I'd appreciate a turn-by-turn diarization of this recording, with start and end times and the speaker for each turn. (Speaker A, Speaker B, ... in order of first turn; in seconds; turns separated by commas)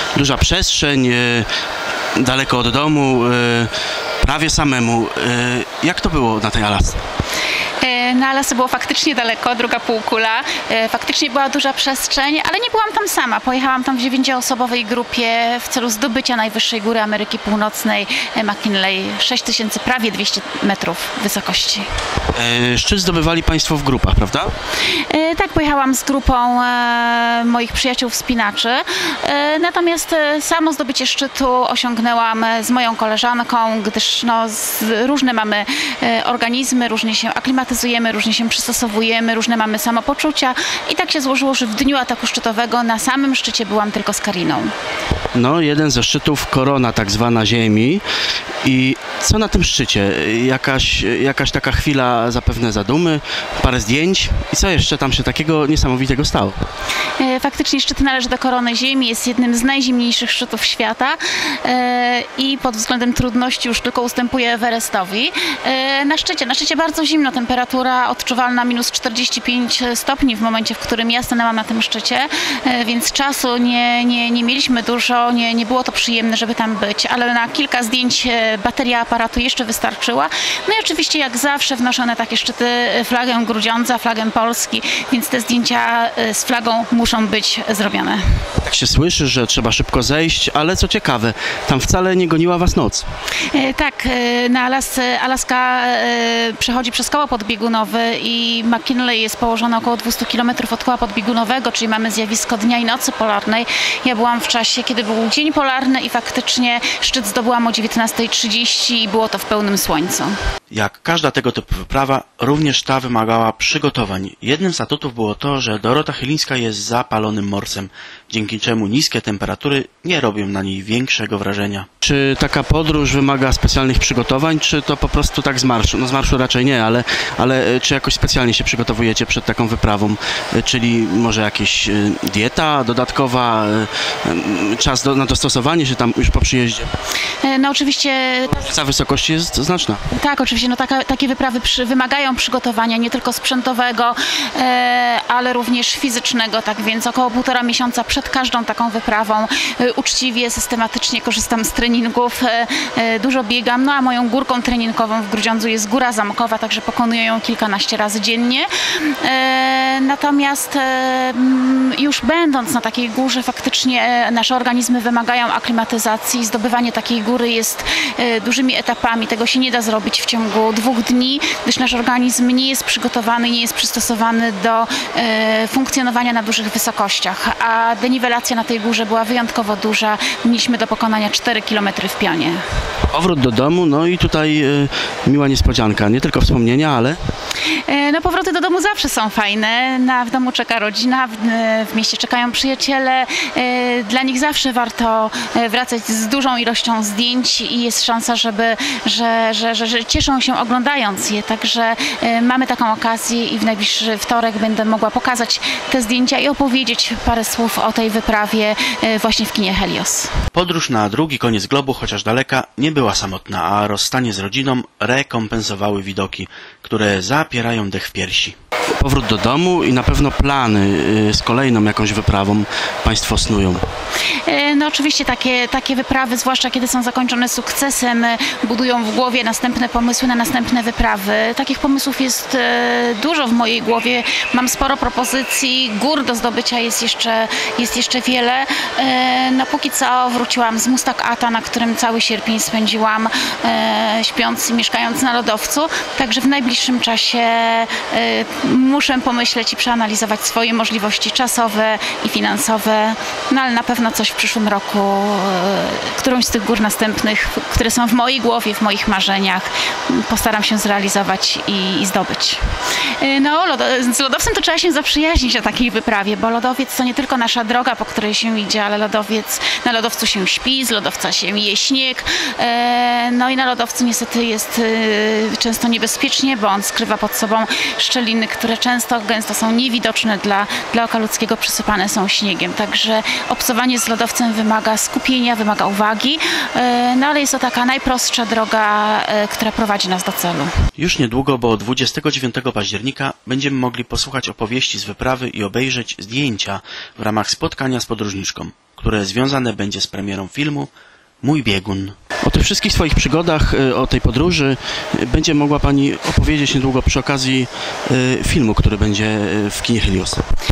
Speaker A: 0.2-1.5, Speaker A: 2.2-7.0, Speaker B: 7.8-21.9, Speaker A: 22.3-24.5, Speaker B: 24.9-44.7, Speaker A: 45.3-48.0, Speaker A: 48.6-56.6, Speaker B: 57.2-88.3, Speaker A: 88.6-93.1, Speaker B: 93.5-110.3, Speaker A: 110.7-136.9, Speaker B: 137.4-138.7, Speaker A: 138.5-140.0, Speaker B: 140.1-182.6, Speaker A: 183.1-187.2, Speaker B: 187.8-210.4, Speaker A: 210.5-223.8, Speaker B: 224.4-262.6, Speaker B: 263.2-290.8, Speaker A: 291.0-300.9, Speaker A: 301.4-310.4